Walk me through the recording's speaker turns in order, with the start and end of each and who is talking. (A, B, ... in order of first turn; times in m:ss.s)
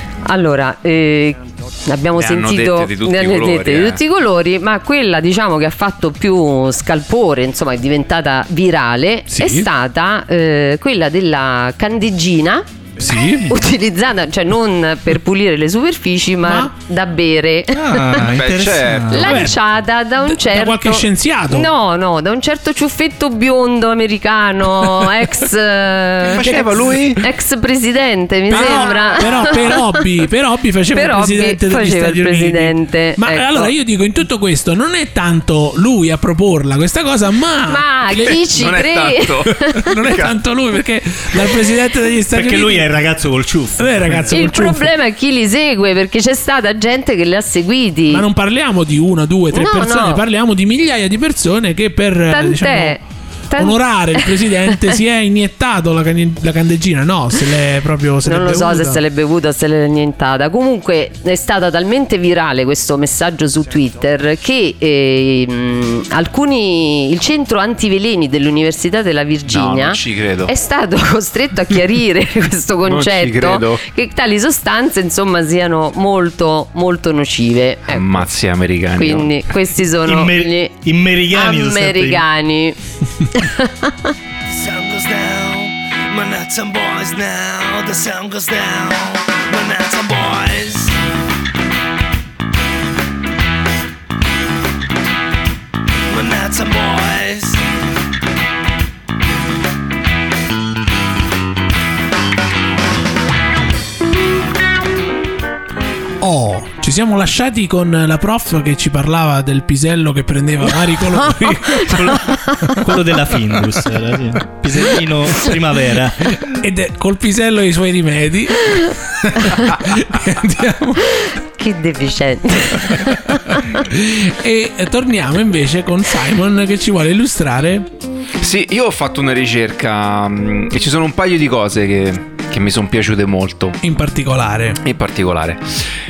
0:00.2-0:12.7 A
0:02.2-0:04.0 B
0:09.3-0:09.7 C
0:13.0-0:13.5 C
0:13.4-0:18.3 A
0:16.4-0:16.7 C
0:17.7-0:19.5 D
0:18.3-0:19.4 B
0:19.1-0:30.1 A
0:19.2-0:19.6 C
0:20.2-0:21.7 C
0:26.2-0:27.2 B
0:28.5-0:38.5 C
0:28.6-0:29.0 D
0:30.9-0:33.7 A
0:37.7-0:40.0 A
0:38.5-0:40.3 B
0:39.5-0:42.9 C
0:42.3-0:44.4 D
0:43.8-0:44.9 C
0:44.3-0:48.2 A
0:48.1-0:53.0 C
0:49.5-0:50.2 A
0:52.3-0:53.0 A
0:53.5-0:55.0 A
0:53.6-0:59.0 C
0:58.2-1:18.3 A
1:09.5-1:10.5 B
1:12.9-1:13.8 B
1:17.9-1:19.3 B
1:19.0-1:20.7 A
1:20.1-1:22.2 D
1:21.3-1:22.8 A
1:23.3-1:24.1 A
1:24.5-1:31.0 E
1:36.1-1:37.6 E
1:46.2-1:52.8 C
1:51.4-1:52.8 A
1:51.8-1:56.6 D
1:56.3-2:01.2 C
1:59.4-1:59.7 A
2:01.1-2:03.6 A
2:03.0-2:07.9 C
2:08.4-2:13.8 B
2:13.8-2:14.8 C
2:14.8-2:15.7 B